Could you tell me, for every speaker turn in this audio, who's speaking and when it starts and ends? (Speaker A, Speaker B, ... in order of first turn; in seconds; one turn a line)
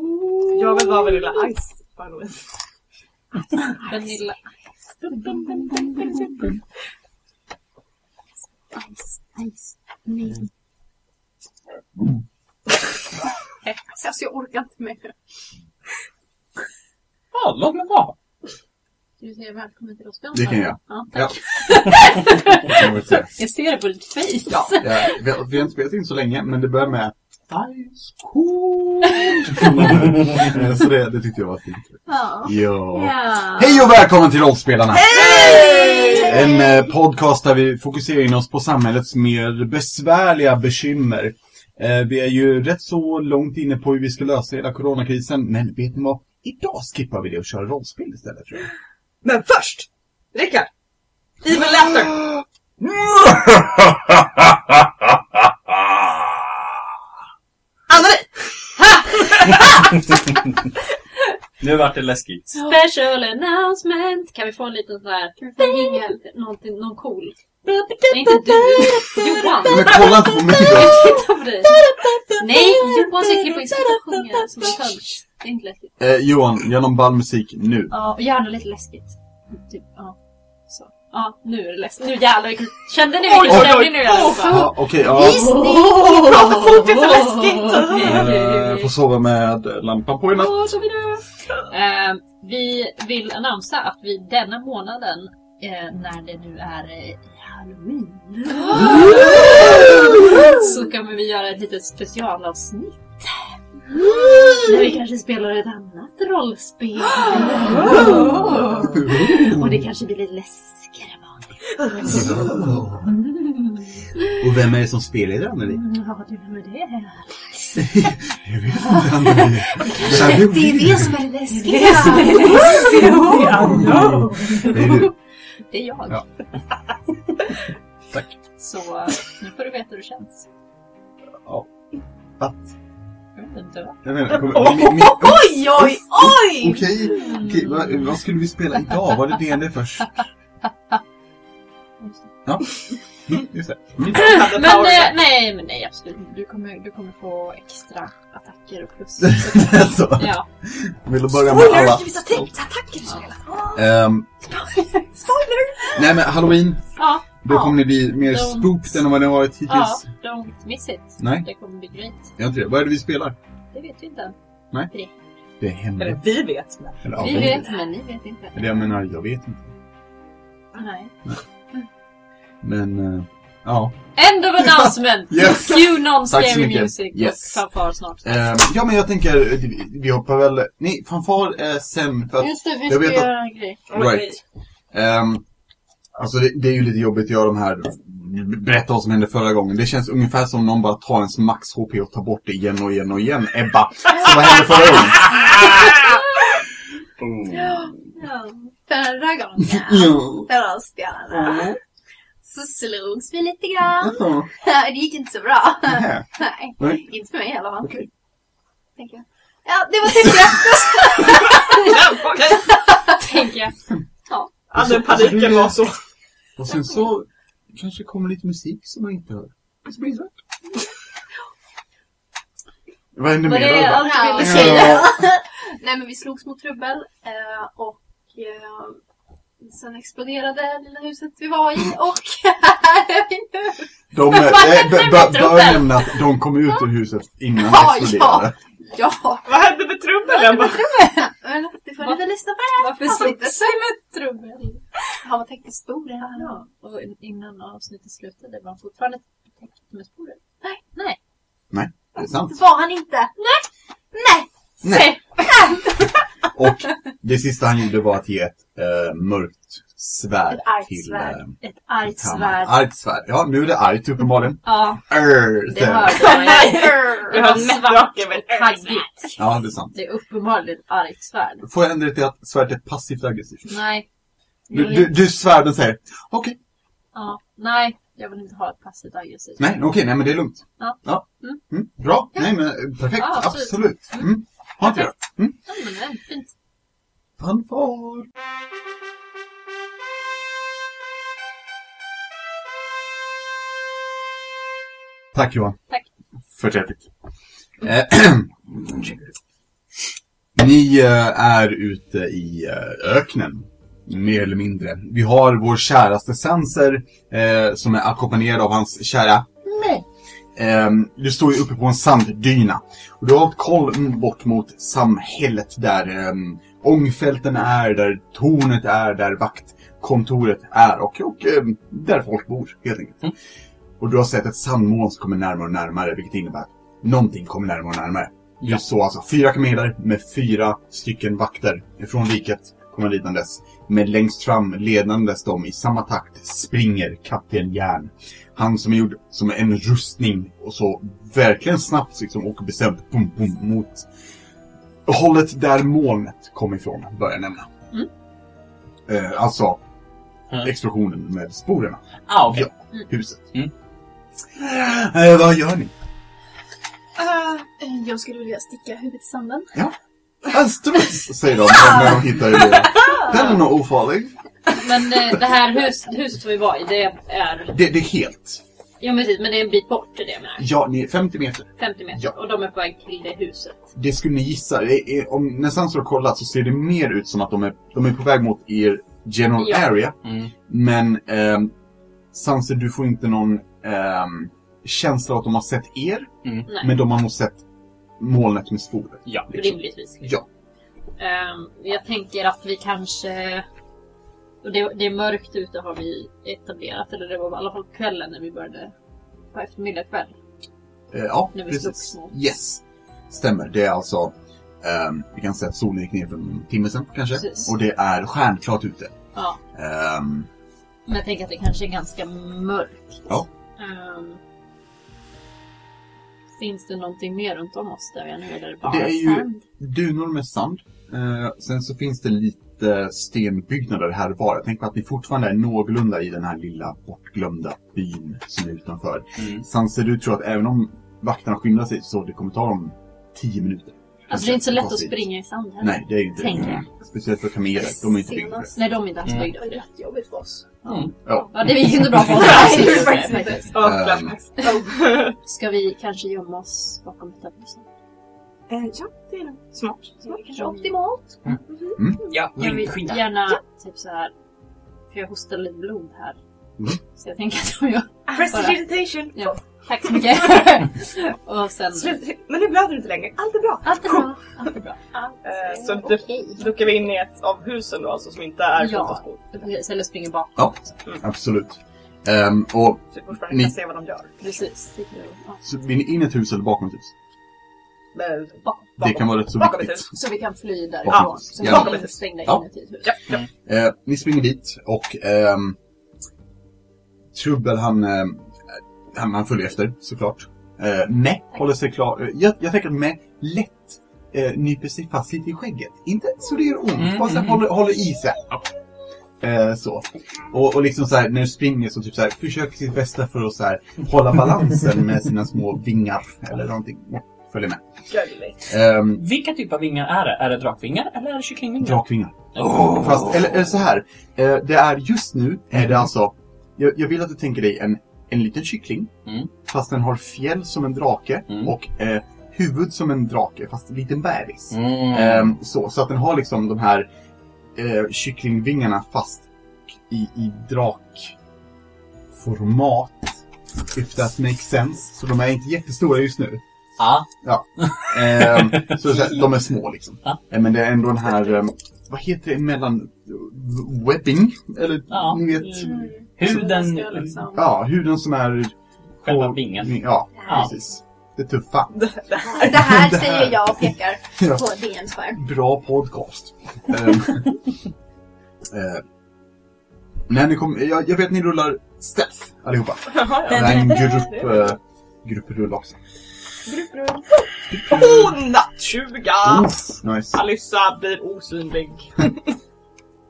Speaker A: 0.5-2.4
Speaker B: 3.8-4.4
Speaker B: 5.2-5.4
Speaker C: 5.2-6.1
Speaker B: 8.8-9.5
Speaker B: 10.1-10.3
Speaker C: 13.9-15.2
Speaker D: 17.3-18.2
Speaker B: 19.2-25.2
Speaker E: 20.3-21.4
Speaker E: 22.7-23.3
Speaker E: 24.8-48.7
Speaker C: 32.1-32.5
Speaker B: 33.0-33.5
Speaker C: 33.1-33.5
Speaker C: 35.1-36.8
Speaker A: 35.2-36.1
Speaker A: 49.2-50.7
Speaker A: 51.4-52.3
Speaker E: 52.8-54.9
Speaker E: 55.7-56.5
Speaker A: 57.9-59.9
Speaker D: 61.6-62.6
Speaker B: 62.6-67.4
Speaker C: 65.4-66.2
Speaker D: 67.7-69.2
Speaker B: 68.1-71.8
Speaker C: 69.5-69.9
Speaker E: 69.7-71.1
Speaker D: 71.7-72.8
Speaker B: 72.4-75.9
Speaker E: 76.0-77.9
Speaker B: 77.9-80.2
Speaker B: 80.7-88.9
Speaker A: 83.2-84.7
Speaker E: 83.5-85.7
Speaker C: 84.2-87.2
Speaker A: 86.0-88.3
Speaker E: 88.0-90.8
Speaker B: 91.7-103.4
Speaker B: 104.5-111.5
Speaker E: 109.0-109.7
Speaker A: 111.9-112.2
Speaker E: 112.0-113.1
Speaker E: 114.4-115.8
Speaker B: 115.7-117.9
Speaker E: 117.8-121.2
Speaker B: 118.9-120.1
Speaker C: 119.8-124.6
Speaker A: 121.0-124.6
Speaker B: 121.5-125.1
Speaker E: 123.6-125.1
Speaker B: 125.7-126.2
Speaker B: 128.6-130.5
Speaker E: 131.4-131.7
Speaker E: 132.4-132.7
Speaker B: 133.4-134.0
Speaker E: 134.0-140.2
Speaker A: 134.3-135.3
Speaker C: 134.9-136.9
Speaker B: 137.2-137.8
Speaker B: 142.0-142.3
Speaker E: 143.3-144.3
Speaker A: 144.1-145.2
Speaker B: 144.1-150.4
Speaker E: 149.2-152.5
Speaker A: 151.3-153.8
Speaker E: 153.8-154.3
Speaker C: 155.2-155.9
Speaker E: 155.9-156.8
Speaker B: 157.0-159.0
Speaker E: 157.4-160.1
Speaker B: 159.7-162.3
Speaker E: 161.2-161.5
Speaker E: 162.4-163.4
Speaker B: 163.7-164.3
Speaker E: 165.6-166.2
Speaker A: 166.0-167.7
Speaker E: 167.0-167.6
Speaker B: 167.2-168.9
Speaker E: 168.5-169.7
Speaker B: 170.8-171.1
Speaker E: 172.6-174.0
Speaker B: 174.2-178.6
Speaker E: 174.6-177.6
Speaker E: 178.2-183.3
Speaker B: 182.4-183.8
Speaker E: 183.9-184.4
Speaker A: 183.9-184.4
Speaker E: 184.9-185.4
Speaker E: 186.2-195.7
Speaker C: 197.5-201.7
Speaker E: 199.7-200.5
Speaker C: 202.4-207.9
Speaker E: 204.0-204.5
Speaker E: 205.9-206.3
Speaker E: 206.8-207.1
Speaker E: 207.8-208.1
Speaker C: 209.0-213.3
Speaker A: 211.7-212.7
Speaker B: 213.2-213.7
Speaker A: 214.7-216.0
Speaker E: 214.8-215.8
Speaker E: 216.6-220.4
Speaker E: 223.2-225.1
Speaker B: 223.4-225.1
Speaker C: 223.9-229.0
Speaker C: 229.6-233.8
Speaker E: 234.1-238.6
Speaker B: 234.3-236.1
Speaker C: 237.5-243.8
Speaker A: 239.5-240.9
Speaker B: 242.8-244.8
Speaker C: 245.2-246.6
Speaker B: 246.2-251.2
Speaker E: 251.7-252.6
Speaker C: 252.4-253.3
Speaker C: 254.1-254.4
Speaker E: 254.8-255.2
Speaker B: 254.9-255.2
Speaker C: 255.5-255.9
Speaker E: 256.6-266.3
Speaker C: 260.5-261.3
Speaker B: 261.1-262.8
Speaker B: 264.6-265.0
Speaker B: 265.6-271.7
Speaker A: 266.1-269.0
Speaker C: 266.4-267.4
Speaker E: 269.4-269.9
Speaker E: 271.6-273.8
Speaker B: 273.7-274.1
Speaker B: 274.7-275.1
Speaker E: 274.7-276.6
Speaker B: 277.1-279.8
Speaker E: 279.6-285.6
Speaker B: 280.8-281.6
Speaker B: 283.2-284.3
Speaker B: 284.8-285.1
Speaker B: 285.6-286.5
Speaker E: 287.4-288.3
Speaker E: 295.3-295.8
Speaker E: 296.5-297.1
Speaker E: 297.8-299.3
Speaker E: 300.6-310.0
Speaker E: 310.6-323.3
Speaker E: 324.0-344.1
Speaker E: 345.1-347.7
Speaker E: 349.1-349.8
Speaker E: 350.6-353.5
Speaker D: 352.3-352.7
Speaker E: 354.5-355.9
Speaker C: 357.6-359.7
Speaker E: 360.5-364.4
Speaker B: 364.7-367.8
Speaker E: 367.7-368.6
Speaker B: 369.0-370.7
Speaker E: 370.6-372.3
Speaker B: 371.8-373.9
Speaker E: 373.9-381.7
Speaker B: 379.6-379.9
Speaker D: 380.2-380.5
Speaker E: 382.3-387.6
Speaker B: 386.7-386.9
Speaker E: 388.2-390.5
Speaker B: 389.5-390.3
Speaker B: 391.2-393.6
Speaker B: 394.6-398.9
Speaker B: 399.5-400.4
Speaker E: 401.1-409.1
Speaker B: 401.5-402.3
Speaker B: 407.4-407.8
Speaker E: 409.7-410.5
Speaker B: 411.1-414.4
Speaker B: 416.6-419.6
Speaker E: 418.8-435.3
Speaker D: 429.4-429.6
Speaker B: 434.3-436.8
Speaker E: 435.8-438.7
Speaker C: 437.9-438.8
Speaker B: 438.8-439.8
Speaker C: 439.4-440.8
Speaker B: 440.8-443.7
Speaker E: 441.3-442.7
Speaker C: 442.4-443.7
Speaker A: 443.7-445.4
Speaker E: 443.8-444.4
Speaker B: 445.4-447.9
Speaker A: 448.7-450.4
Speaker C: 450.3-451.2
Speaker B: 450.5-451.2
Speaker D: 452.3-453.3
Speaker B: 452.6-454.3
Speaker B: 455.1-456.4
Speaker B: 457.2-462.2
Speaker A: 458.3-459.5
Speaker A: 461.9-464.3
Speaker B: 463.8-465.0
Speaker C: 465.1-466.6
Speaker A: 465.4-469.5
Speaker B: 468.8-471.0
Speaker E: 470.6-473.8
Speaker A: 473.1-474.4
Speaker B: 474.4-475.6
Speaker E: 475.6-477.1
Speaker A: 478.1-480.1
Speaker E: 479.0-480.1
Speaker B: 480.1-483.1
Speaker E: 481.1-482.6
Speaker A: 481.1-482.2
Speaker A: 483.0-483.4
Speaker E: 483.6-485.8
Speaker E: 487.3-488.5
Speaker E: 489.1-498.5
Speaker D: 497.1-497.6
Speaker E: 499.4-507.8
Speaker A: 508.1-508.6
Speaker E: 508.7-509.2
Speaker D: 509.2-512.0
Speaker E: 511.8-519.1
Speaker D: 512.5-513.5
Speaker E: 519.6-527.1
Speaker D: 524.7-525.6
Speaker E: 527.8-531.4
Speaker E: 532.3-533.4
Speaker E: 533.9-536.6
Speaker D: 537.0-539.4
Speaker E: 537.4-545.9
Speaker D: 545.1-547.5
Speaker C: 545.8-547.4
Speaker E: 547.5-552.1
Speaker D: 549.2-550.7
Speaker A: 551.9-552.9
Speaker C: 552.6-555.4
Speaker E: 552.9-554.6
Speaker E: 555.4-557.6
Speaker E: 558.7-559.0
Speaker E: 560.3-566.0
Speaker A: 563.1-564.7
Speaker A: 566.7-569.7
Speaker E: 567.8-568.3
Speaker E: 569.4-570.4
Speaker A: 570.3-572.5